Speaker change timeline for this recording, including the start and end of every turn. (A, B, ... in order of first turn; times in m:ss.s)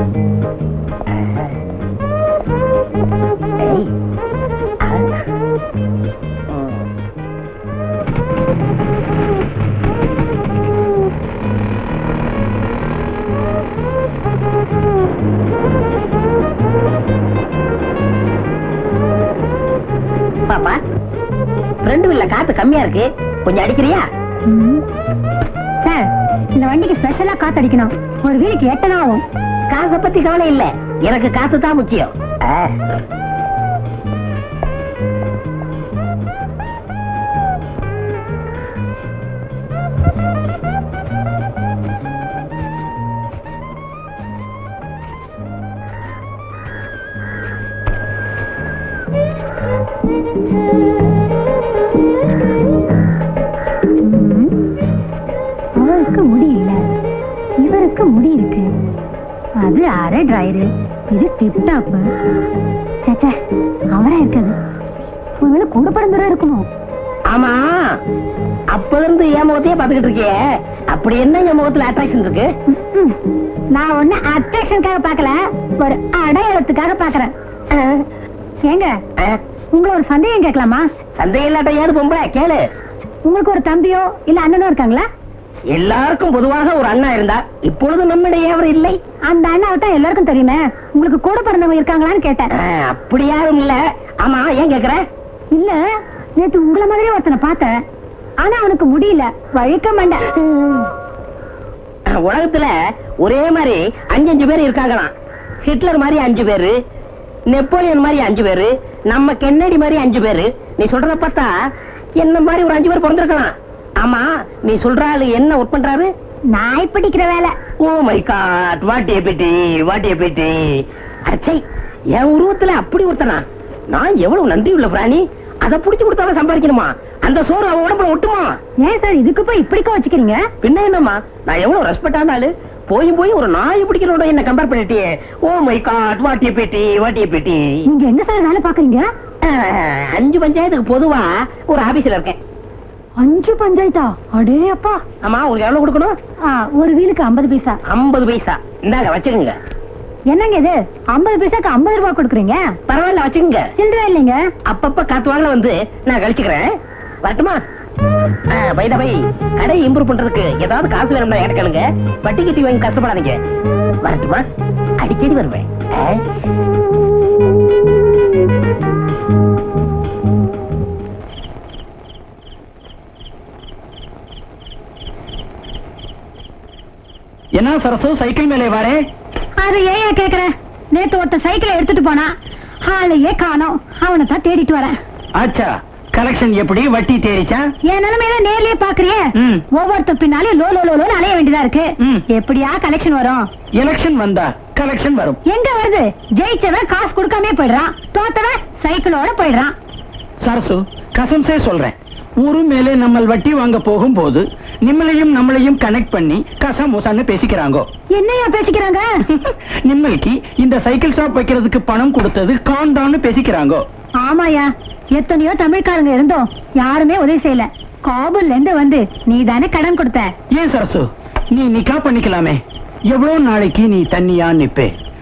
0:01.1-0:01.5 A
0:03.6-0:03.9 A
0:04.8-0:05.1 A
0:06.5-0:06.8 A
0:20.5-0:20.8 A
0:21.8-0:24.1 A
0:24.5-0:24.8 B
0:25.8-0:29.2 B
0:29.7-0:32.8 A
0:54.0-0:54.5 B
0:55.8-0:56.8 B
0:57.6-0:58.7 B
0:59.6-1:02.1 B
1:03.0-1:03.4 B
1:03.9-1:04.6 B
1:05.4-1:06.7 B
1:07.3-1:08.0 A
1:08.7-1:10.4 A
1:10.9-1:12.5 A
1:12.7-1:13.2 B
1:13.7-1:17.3 B
1:17.7-1:18.1 A
1:18.6-1:19.0 B
1:19.7-1:20.9 B
1:21.2-1:22.6 A
1:23.2-1:25.1 B
1:25.7-1:29.0 A
1:29.3-1:32.5 B
1:32.6-1:35.0 A
1:35.5-1:35.8 B
1:36.4-1:37.7 B
1:38.4-1:40.2 B
1:40.5-1:40.8 A
1:42.1-1:45.1 A
1:45.6-1:46.8 A
1:47.5-1:51.5 A
1:52.2-1:56.1 A
1:56.5-1:57.6 B
1:57.8-2:01.6 A
2:02.2-2:08.6 A
2:08.8-2:10.4 B
2:10.6-2:17.8 A
2:17.9-2:19.1 B
2:19.4-2:22.4 A
2:23.2-2:25.0 B
2:25.2-2:26.2 A
2:26.5-2:27.8 B
2:27.9-2:29.6 A
2:30.3-2:32.6 B
2:32.9-2:33.7 A
2:33.8-2:34.4 B
2:34.7-2:36.7 A
2:37.2-2:37.6 A
2:38.5-2:43.4 A
2:44.0-2:44.5 A
2:45.0-2:46.2 A
2:57.5-2:59.0 C
2:59.6-3:02.3 B
3:02.9-3:04.9 B
3:05.4-3:07.7 C
3:07.9-3:13.5 B
3:09.4-3:09.6 C
3:13.8-3:15.4 C
3:15.5-3:19.7 B
3:20.4-3:27.9 C
3:28.2-3:29.1 B
3:29.3-3:33.8 C
3:34.2-3:40.3 B
3:40.5-3:42.6 C
3:43.1-3:44.9 C